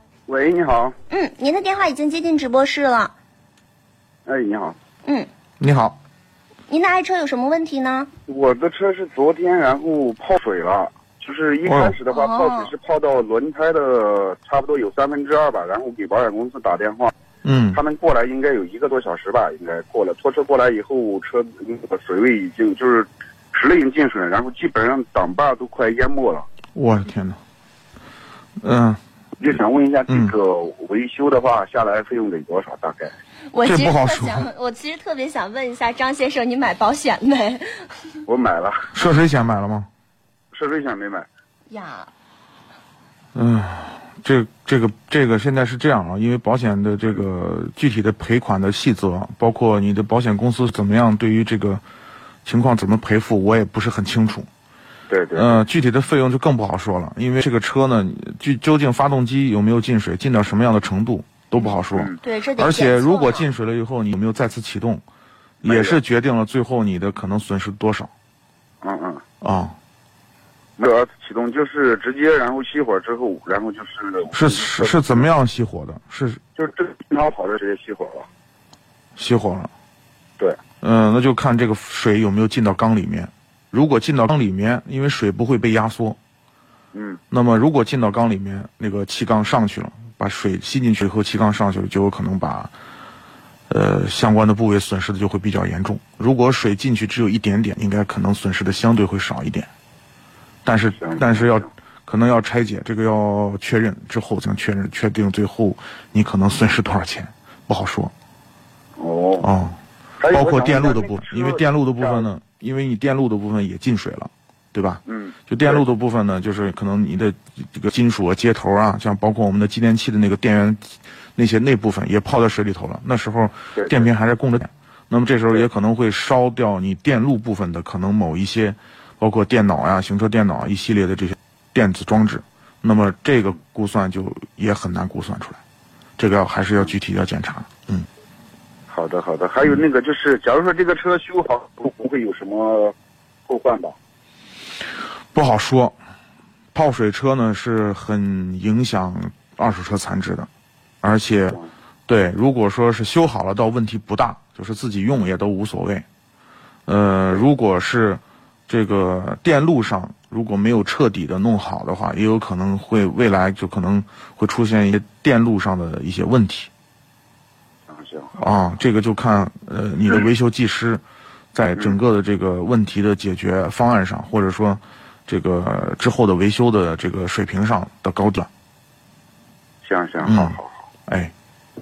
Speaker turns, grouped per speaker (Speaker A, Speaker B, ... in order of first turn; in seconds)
Speaker A: 0.3-0.9, 4.2-4.8, 8.3-17.1, 17.7-26.4, 29.4-33.1, 38.3-38.9, 40.5-41.3, 55.1-55.6, 61.9-62.2, 65.6-66.0, 68.8-69.2, 70.8-75.2, 76.5-78.3, 86.9-87.2, 101.0-101.6, 109.0-109.5, 110.2-112.2, 115.0-115.8, 123.7-124.1, 138.9-142.9, 143.5-143.9, 167.9-168.3, 179.8-180.9
Speaker B: 1.1-3.1, 6.7-8.1, 12.1-12.7, 33.5-37.9, 41.7-42.1, 62.2-63.5
Speaker C: 5.6-6.0, 11.7-12.0, 17.4-17.8, 26.7-27.4, 28.6-29.0, 33.6-34.5, 38.9-39.9, 43.3-51.8, 52.4-54.5, 55.3-65.0, 65.6-68.1, 69.4-69.8, 74.3-76.4, 79.2-79.7, 80.8-86.2, 87.3-92.7, 93.7-99.7, 100.6-108.1, 109.4-109.8, 110.3-135.6, 136.2-138.1, 145.3-145.9, 146.7-150.5, 151.0-156.0, 156.8-166.7, 168.4-171.0, 171.5-178.5, 180.2-181.3